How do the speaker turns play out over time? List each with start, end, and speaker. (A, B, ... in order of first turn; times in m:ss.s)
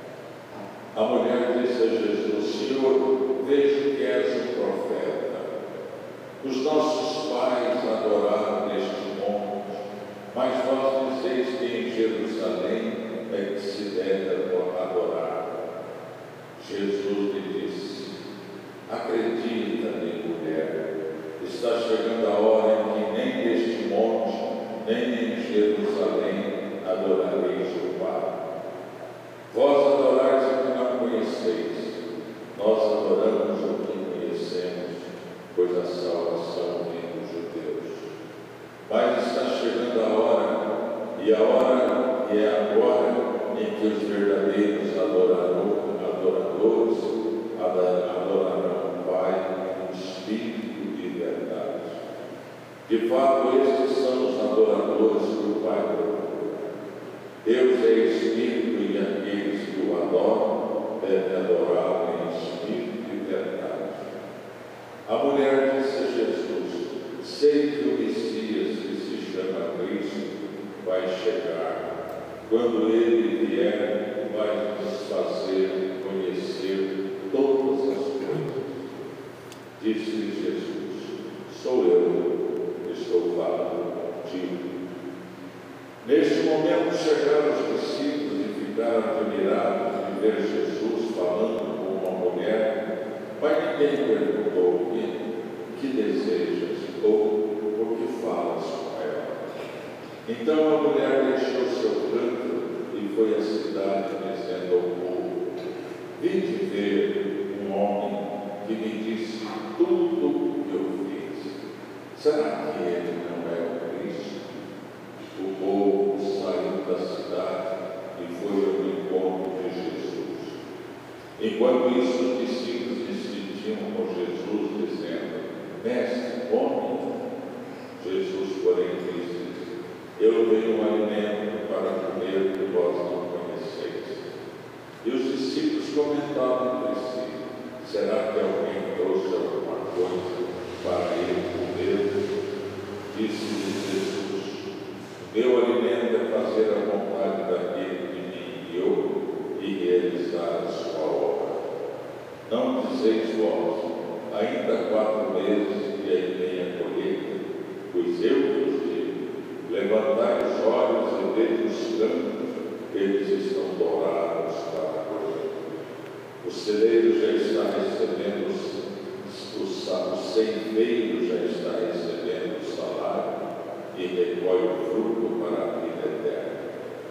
0:00.9-0:05.5 A
0:06.4-0:15.5 A
0:16.6-0:18.1 A
0:18.9-0:20.8 A
0:21.4-0:28.3 A
0:29.5-0:32.0 A
0:32.5-0:38.1 A
0:38.9-0:52.0 A
0:52.8-0:56.6 A
0:57.4-1:04.1 A
1:05.0-1:10.3 A
1:10.8-1:11.9 A
1:12.4-1:18.8 A
1:19.8-1:22.3 A
1:22.8-1:24.7 A
1:26.0-1:32.7 A
1:33.4-1:39.4 A
1:40.2-1:45.4 A
1:46.2-1:51.5 A
1:52.1-1:54.4 A
1:55.3-2:00.6 A
2:01.4-2:07.1 A
2:08.0-2:14.2 A
2:15.0-2:22.2 A
2:23.1-2:24.6 A
2:25.2-2:31.6 A
2:32.4-2:37.4 A
2:37.9-2:42.3 A
2:42.9-2:45.8 A
2:46.4-2:53.3 A
2:53.9-2:56.6 A